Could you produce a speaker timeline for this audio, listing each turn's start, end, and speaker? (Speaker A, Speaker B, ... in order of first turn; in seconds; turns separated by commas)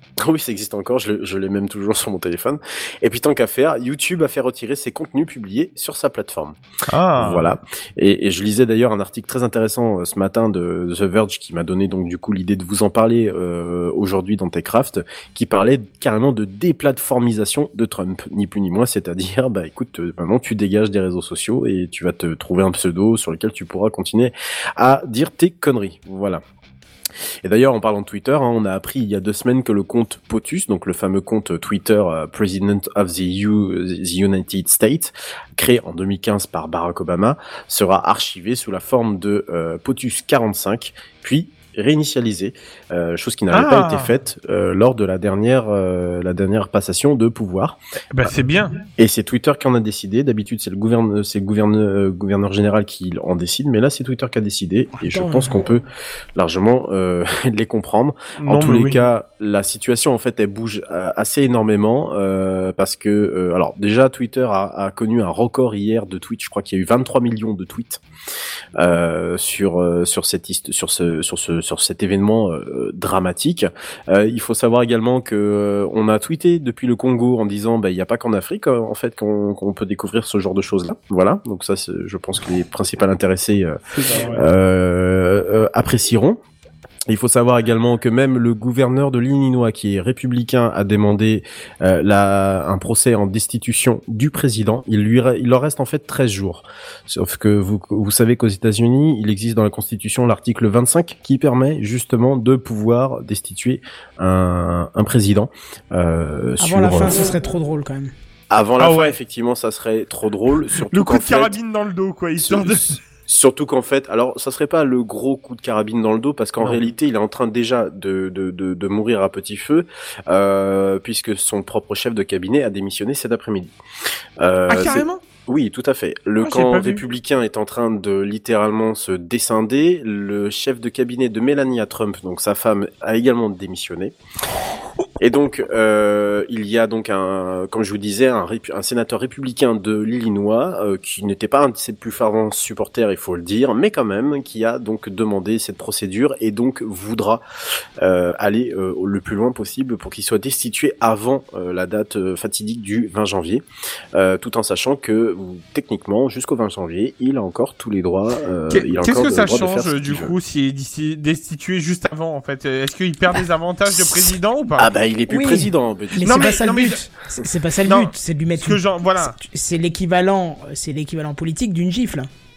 Speaker A: 0.2-6.6, Speaker B: 6.9-7.5, Speaker A: 7.2-26.4, Speaker A: 27.4-48.3, Speaker B: 43.5-44.1, Speaker B: 48.1-48.8, Speaker A: 49.0-55.8, Speaker C: 55.0-55.6, Speaker A: 56.4-68.0, Speaker B: 58.4-59.0, Speaker A: 68.8-86.4, Speaker B: 84.0-84.4, Speaker A: 87.1-107.3, Speaker C: 106.6-108.1, Speaker A: 108.5-111.6, Speaker B: 108.8-109.2, Speaker B: 110.9-113.0, Speaker A: 112.4-123.7, Speaker A: 124.4-134.2, Speaker B: 124.7-125.2, Speaker B: 126.4-127.0, Speaker A: 135.2-147.4, Speaker A: 148.0-160.3, Speaker B: 158.7-164.9, Speaker A: 163.9-164.2, Speaker A: 164.8-166.5, Speaker C: 165.3-172.3, Speaker B: 166.2-167.0, Speaker B: 167.8-169.3